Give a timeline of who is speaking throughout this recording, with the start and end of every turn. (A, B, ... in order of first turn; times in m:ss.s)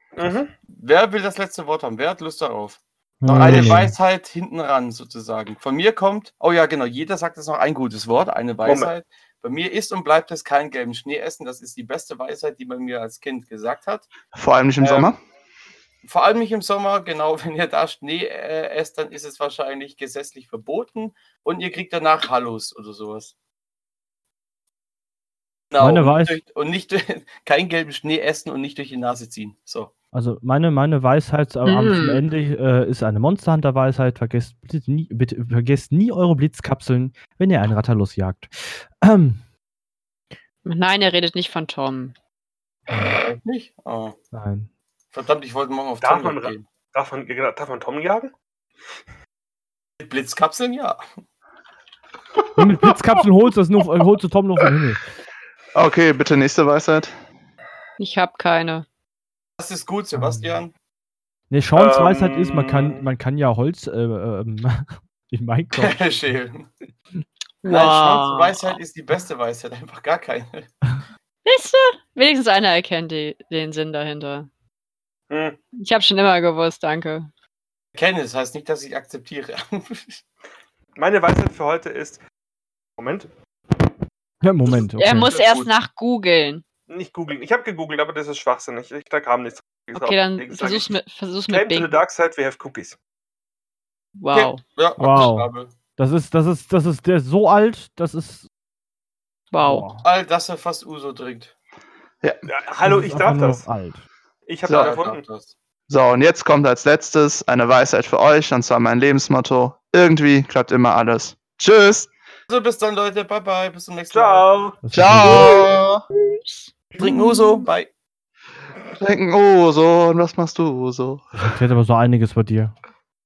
0:00.2-0:00.5 A
0:00.7-0:14.1 B
0:03.2-0:03.9 C
0:08.6-0:08.9 A
0:14.3-0:15.2 D
0:14.8-0:15.1 B
0:16.0-0:23.3 B
0:25.7-0:29.9 B
0:25.8-0:26.4 C
0:30.1-0:39.4 C
0:31.6-0:32.2 E
0:40.6-0:42.1 E
0:42.9-0:43.2 C
0:43.0-0:44.2 B
0:44.3-0:44.7 C
0:45.1-0:46.6 B
0:46.0-0:48.3 A
0:50.0-0:51.0 B
0:52.6-0:55.0 C
0:55.7-0:57.1 D
0:58.0-0:58.8 E
0:59.6-1:00.7 B
1:00.1-1:00.6 C
1:01.5-1:06.0 C
1:01.7-1:03.0 A
1:05.7-1:06.7 B
1:07.6-1:08.8 E
1:07.7-1:10.7 B
1:11.4-1:14.5 E
1:15.3-1:15.6 A
1:15.8-1:17.3 E
1:17.9-1:20.2 B
1:21.0-1:22.2 A
1:23.0-1:23.3 A
1:24.4-1:25.3 C
1:24.9-1:26.6 E
1:25.2-1:25.7 A
1:26.9-1:30.9 A
1:29.9-1:31.9 E
1:31.5-1:33.0 A
1:34.2-1:34.6 E
1:34.3-1:35.7 B
1:35.0-1:38.5 C
1:39.5-1:39.9 E
1:39.6-1:40.0 C
1:40.0-1:41.5 B
1:42.4-1:43.6 A
1:42.8-1:44.0 C
1:44.5-1:45.2 A
1:44.6-1:45.0 D
1:44.7-1:45.5 B
1:45.9-1:52.1 D
1:52.5-1:54.4 B
1:54.1-1:54.8 A
1:54.8-1:55.5 C
1:54.9-1:56.0 D
1:55.2-1:57.6 E
1:57.0-1:57.9 B
1:59.0-2:01.5 D
2:01.4-2:02.7 C